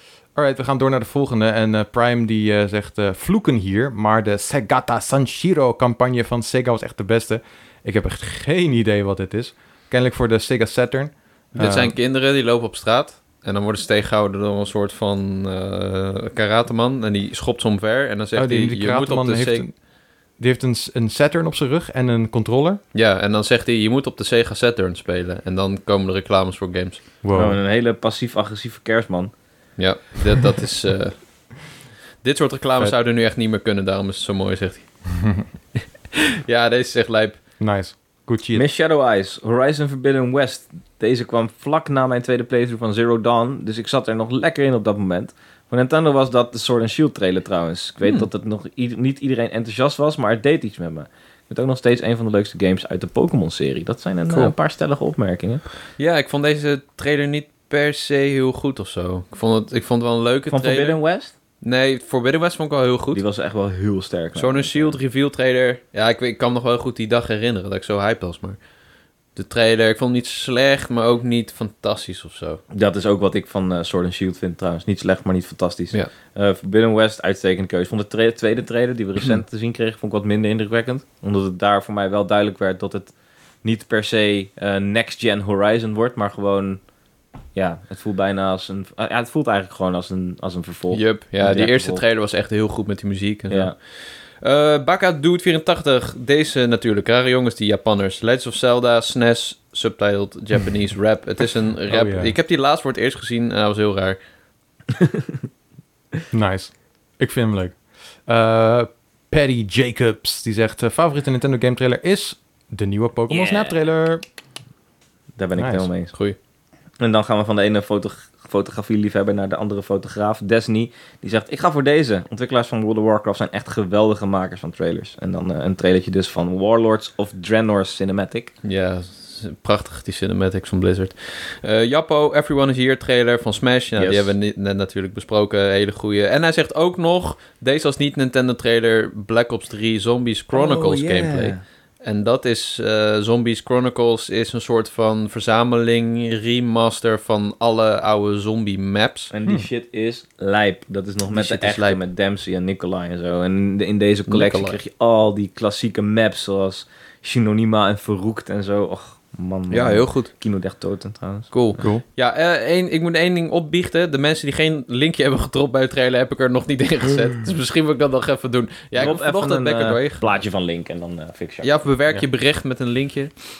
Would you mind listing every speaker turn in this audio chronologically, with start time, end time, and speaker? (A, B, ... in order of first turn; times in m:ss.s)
0:00.3-0:11.9 A
0:11.6-0:19.6 B
0:18.3-0:19.8 A
0:20.4-0:22.8 A
0:22.9-0:27.0 B
0:27.2-0:27.6 A
0:27.3-0:29.3 C
0:29.8-0:31.2 B
0:32.2-0:34.9 B
0:36.1-0:37.4 B
0:37.6-0:38.6 A
0:38.5-0:55.6 C
0:56.0-1:01.0 B
1:00.5-1:01.3 C
1:01.6-1:03.2 B
1:03.1-1:05.0 C
1:04.4-1:08.6 B
1:09.3-1:12.6 B
1:12.7-1:26.8 C
1:27.5-1:32.0 C
1:30.9-1:44.2 B
1:33.5-1:33.7 C
1:41.9-1:42.3 A
1:46.3-1:54.2 A
1:53.3-1:53.8 C
1:55.4-1:56.1 C
1:55.6-1:55.9 A
1:57.0-2:08.5 C
2:08.6-2:29.3 B
2:14.0-2:14.3 C
2:20.5-2:21.6 C
2:29.3-2:41.5 C
2:31.3-2:32.0 B
2:34.3-2:34.8 B
2:39.7-2:40.3 B
2:41.5-2:50.2 B
2:41.8-2:42.0 A
2:48.9-2:52.2 C
2:51.6-2:53.3 B